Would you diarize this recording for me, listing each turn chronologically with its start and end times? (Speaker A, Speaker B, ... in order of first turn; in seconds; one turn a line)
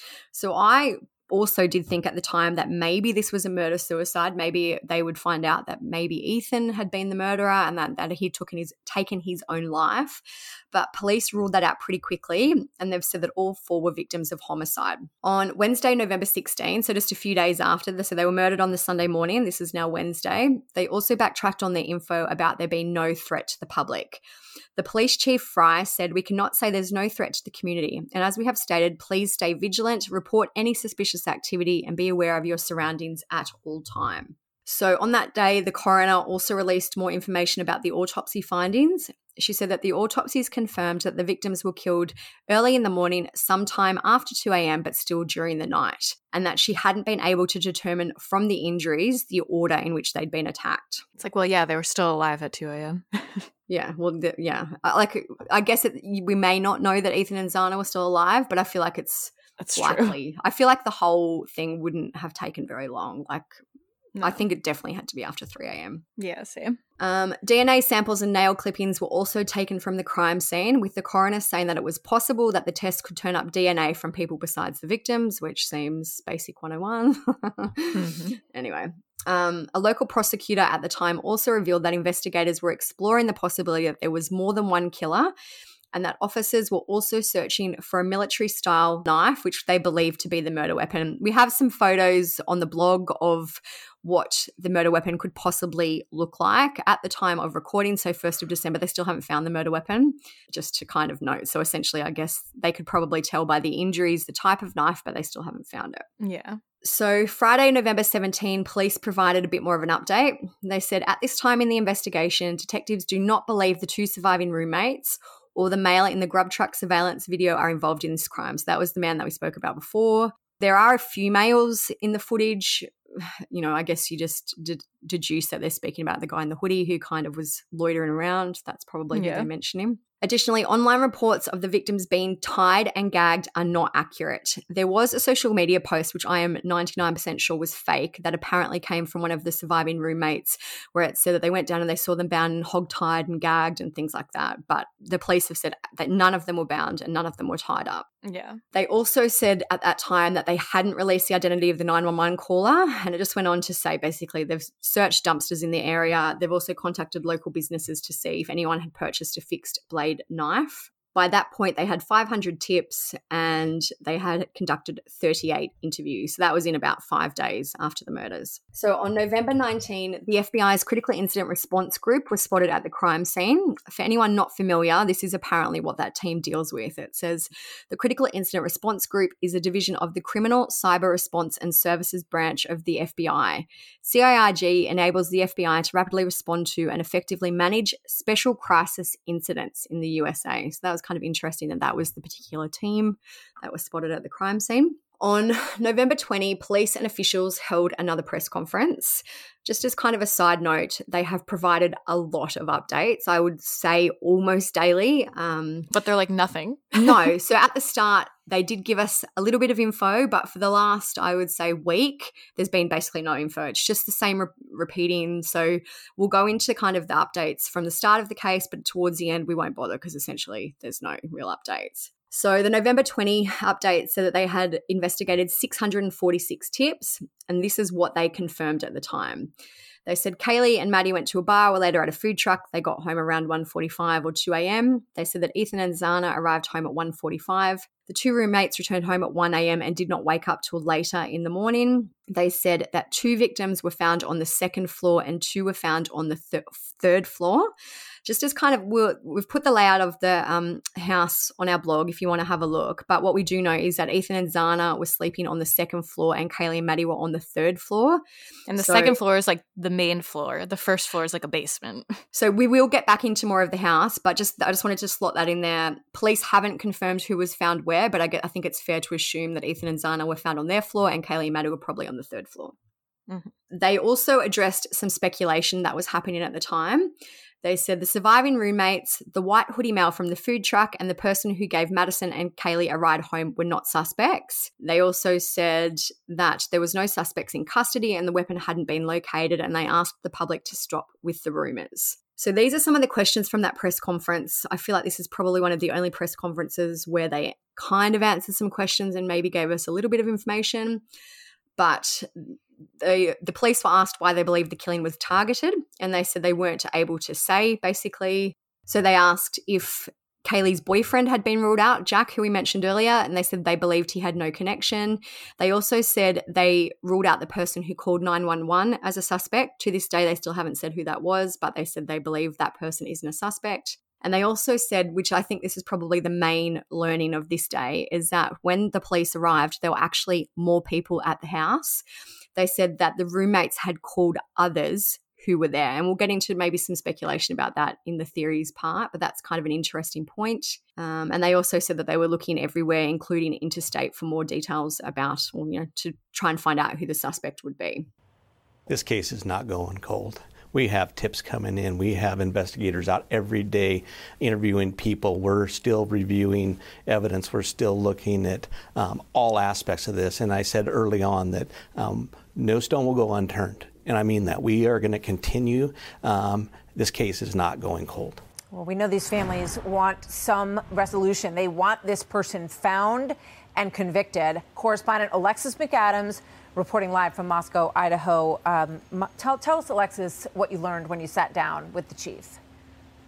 Speaker A: 0.3-24.2
Speaker A: 24.8-51.0
Speaker B: 51.2-53.5
Speaker A: 53.7-63.6
Speaker B: 59.6-60.1
Speaker B: 64.2-64.4
Speaker A: 64.2-66.0
Speaker B: 66.2-66.8
Speaker A: 67.0-85.3
Speaker B: 78.0-78.3
Speaker A: 85.9-106.0
Speaker B: 106.2-106.6
Speaker A: 106.8-148.1
Speaker B: 129.1-129.5
Speaker B: 148.2-148.6
Speaker A: 148.7-205.9
Speaker B: 205.9-207.3
Speaker A: 206.9-229.5
Speaker A: 230.1-247.7
Speaker A: 248.2-258.2
Speaker B: 258.7-262.2
Speaker A: 258.8-259.1
Speaker A: 262.3-272.8
Speaker A: 273.7-301.0
Speaker A: 301.8-332.0
Speaker A: 332.6-348.1
Speaker C: 348.9-368.4
Speaker D: 368.7-382.6